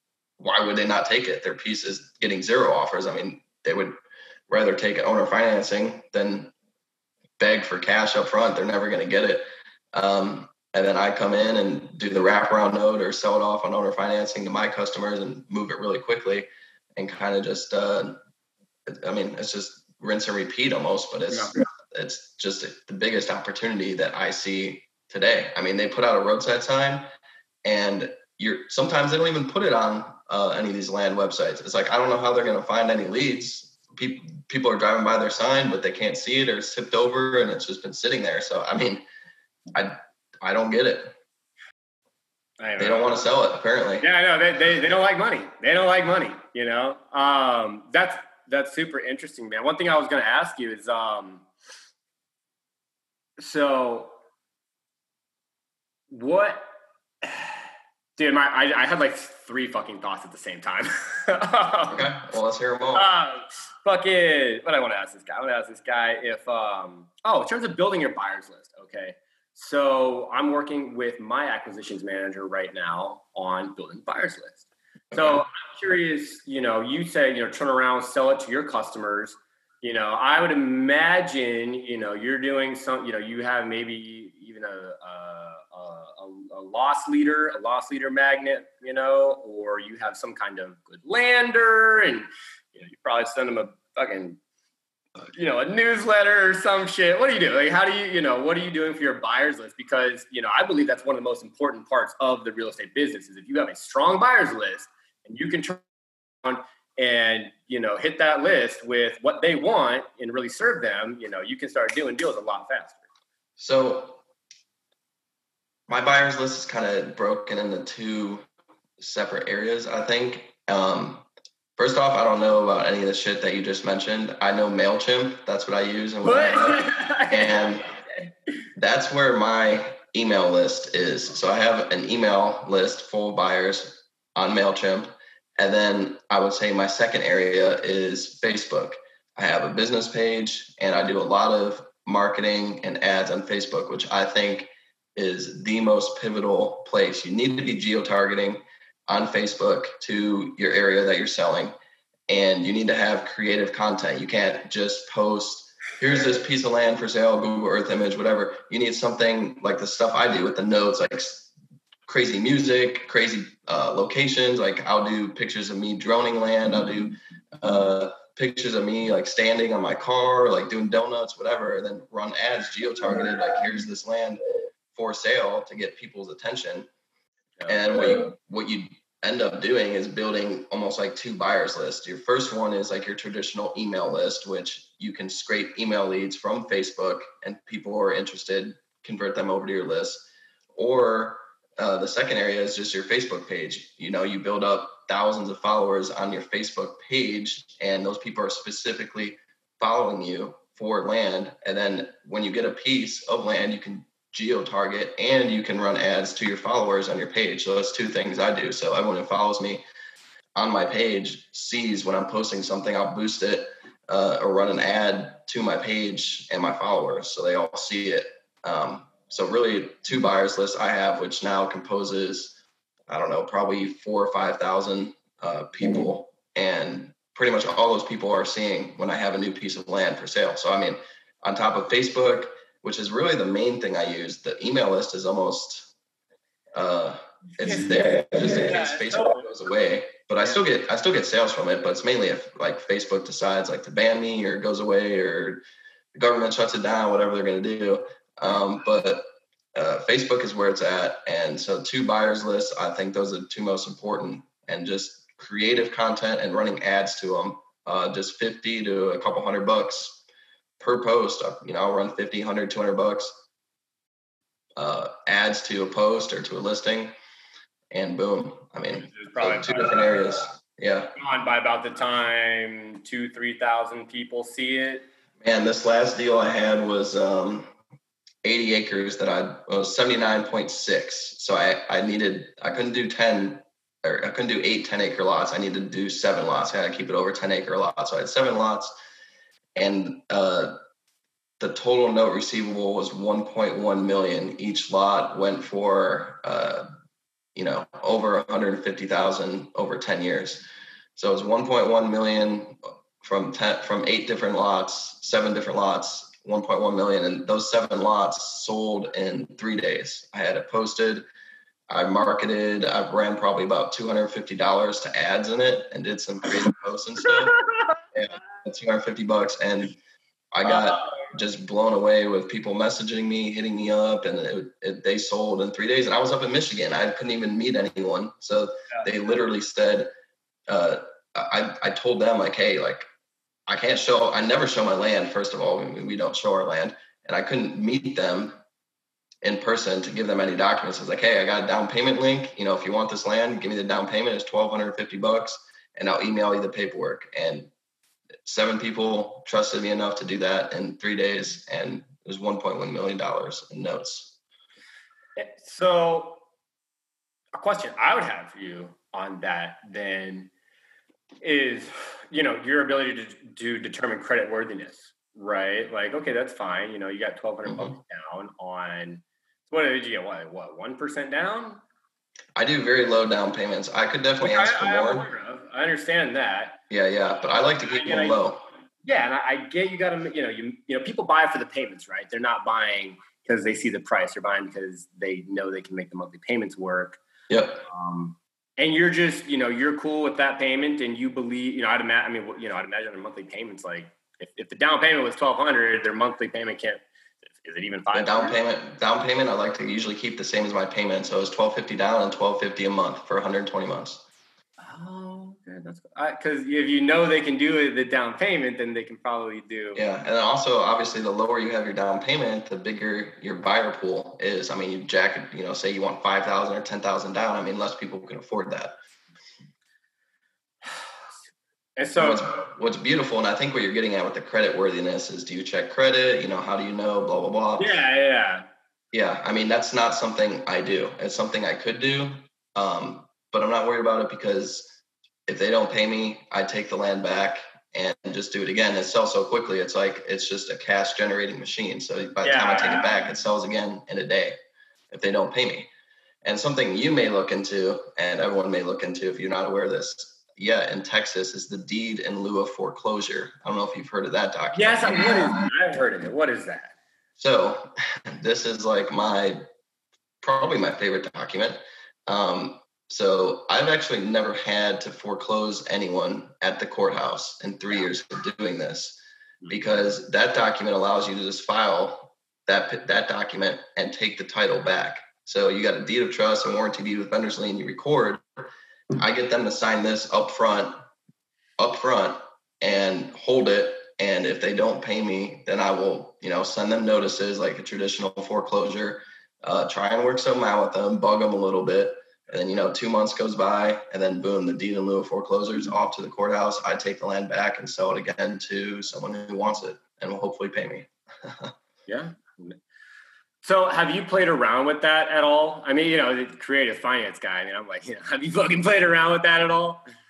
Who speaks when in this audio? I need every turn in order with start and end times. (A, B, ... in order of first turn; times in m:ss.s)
0:00.4-0:04.0 A
0:04.5-0:06.5 A
0:07.4-0:18.2 A
0:18.9-0:27.0 A
0:21.3-0:21.6 B
0:27.6-0:39.0 A
0:39.7-0:41.1 A
0:42.6-0:43.2 B
0:42.8-0:44.1 A
0:44.0-0:51.5 B
0:53.4-0:54.2 B
0:56.1-0:56.7 B
0:57.2-0:57.6 B
0:58.2-1:02.1 B
1:01.9-1:03.1 A
1:03.0-1:34.4 B
1:15.1-1:15.4 A
1:35.3-1:45.9 B
1:46.4-1:53.0 B
1:53.6-1:54.2 A
1:55.9-1:58.4 A
1:59.0-2:01.3 A
2:01.8-2:07.8 A
2:06.2-2:08.3 B
2:08.8-2:31.7 A
2:32.3-2:41.5 A
2:42.1-2:54.4 A
2:54.9-2:56.9 A
2:57.6-2:57.8 B
2:57.7-3:29.8 A
3:30.6-3:55.9 A
3:56.7-4:05.6 A
3:57.6-3:59.5 B
4:06.2-4:09.2 A
4:09.8-4:20.2 A
4:20.8-4:23.4 A
4:24.8-4:27.1 A
4:27.9-4:31.1 A
4:29.0-4:30.2 B
4:31.2-4:35.1 B
4:35.4-4:37.7 A
4:38.4-4:48.9 A
4:49.8-4:50.8 A
4:51.6-4:56.9 A
4:57.6-5:00.6 A
5:01.2-5:11.3 A
5:11.9-5:17.6 A
5:18.1-5:20.0 A
5:20.5-5:30.1 A
5:20.7-5:21.3 B
5:30.7-5:33.1 A
5:33.7-5:38.6 A
5:39.4-5:47.7 A
5:48.4-5:54.4 A
5:55.4-5:56.4 B
5:57.6-6:00.5 B
6:01.4-6:11.8 B
6:07.7-6:08.0 A
6:12.6-6:15.3 A
6:14.4-6:16.8 B
6:16.9-6:18.6 A
6:17.8-6:18.4 B
6:19.0-6:27.2 B
6:27.5-6:27.8 A
6:27.9-6:38.6 B
6:38.1-6:44.2 A
6:44.8-6:50.0 B
6:50.0-6:59.0 A
7:02.0-7:02.6 B
7:02.2-7:08.0 A
7:07.8-7:08.7 B
7:09.1-7:24.6 A
7:22.4-7:23.1 B
7:25.1-7:25.9 A
7:26.4-7:35.4 A
7:34.7-7:36.9 B
7:37.4-7:39.6 A
7:40.4-8:01.0 A
8:01.8-8:21.7 A
8:22.1-8:22.8 B
8:23.6-8:30.0 B